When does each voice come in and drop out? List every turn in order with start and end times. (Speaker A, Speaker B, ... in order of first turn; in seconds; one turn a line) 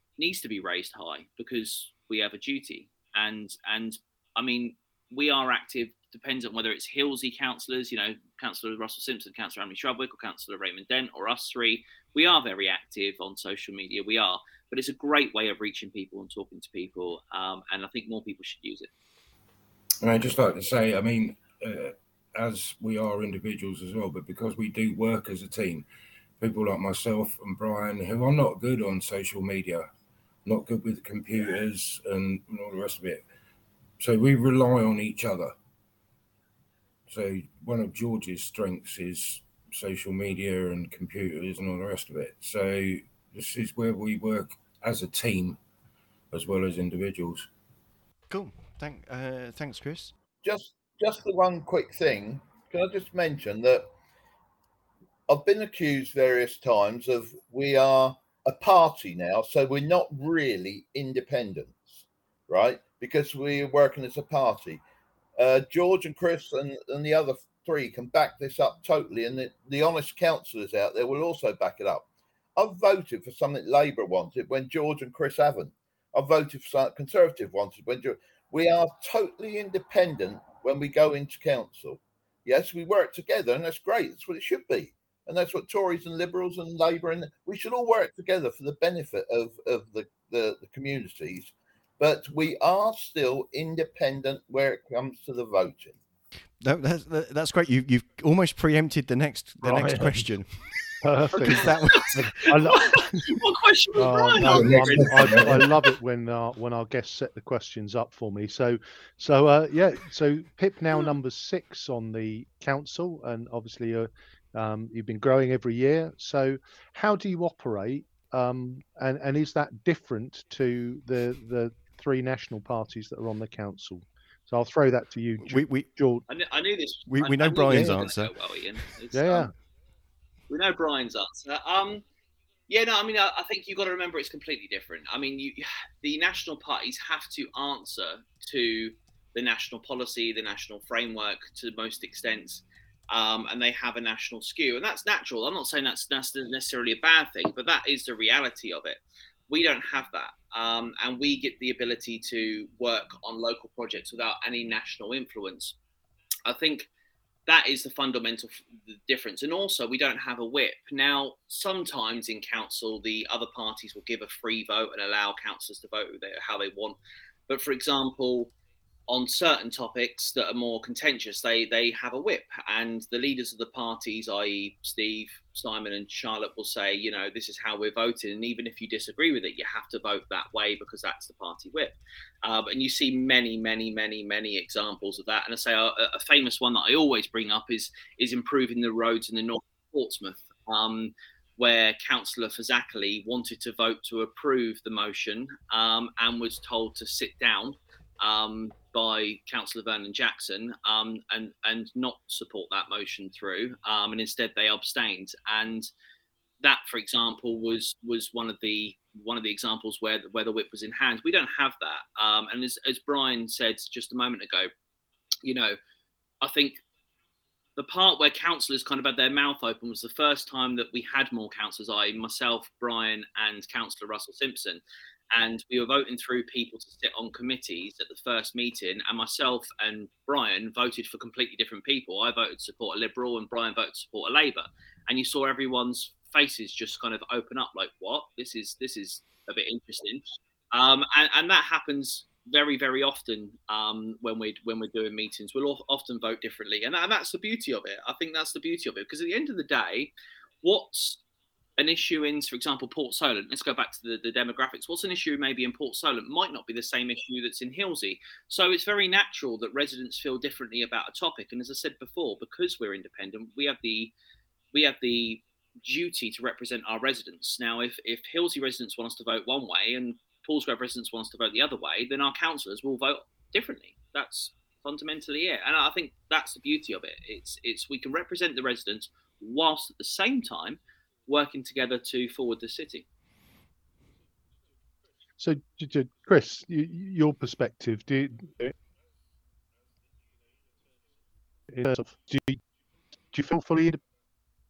Speaker A: 0.2-18.9
Speaker B: 20.0-25.9
Speaker B: 26.4-29.9
Speaker B: 30.4-33.2
Speaker B: 34.0-35.5
Speaker B: 37.1-45.6
Speaker B: 46.3-47.5
Speaker C: 48.3-50.1
Speaker D: 50.4-53.9
Speaker D: 55.3-64.8
Speaker D: 65.4-96.0
Speaker C: 96.6-100.8
Speaker E: 99.6-100.4
Speaker E: 101.0-103.2
Speaker C: 101.4-102.2
Speaker A: 101.4-105.9
Speaker E: 104.0-126.2
Speaker B: 104.4-105.7
Speaker C: 125.4-125.9
Speaker A: 126.3-129.5
Speaker C: 127.1-128.3
Speaker E: 129.1-129.5
Speaker A: 130.5-132.0
Speaker A: 132.7-155.8
Speaker A: 156.4-156.9
Speaker A: 157.5-167.0
Speaker A: 167.5-168.5
Speaker A: 169.1-205.9
Speaker A: 206.6-214.7
Speaker A: 215.4-215.8
Speaker A: 216.4-216.8
Speaker A: 217.8-224.8
Speaker A: 225.3-251.2
Speaker A: 251.8-264.1
Speaker A: 264.7-283.1
Speaker E: 285.4-288.7
Speaker E: 291.7-292.6
Speaker E: 293.3-294.0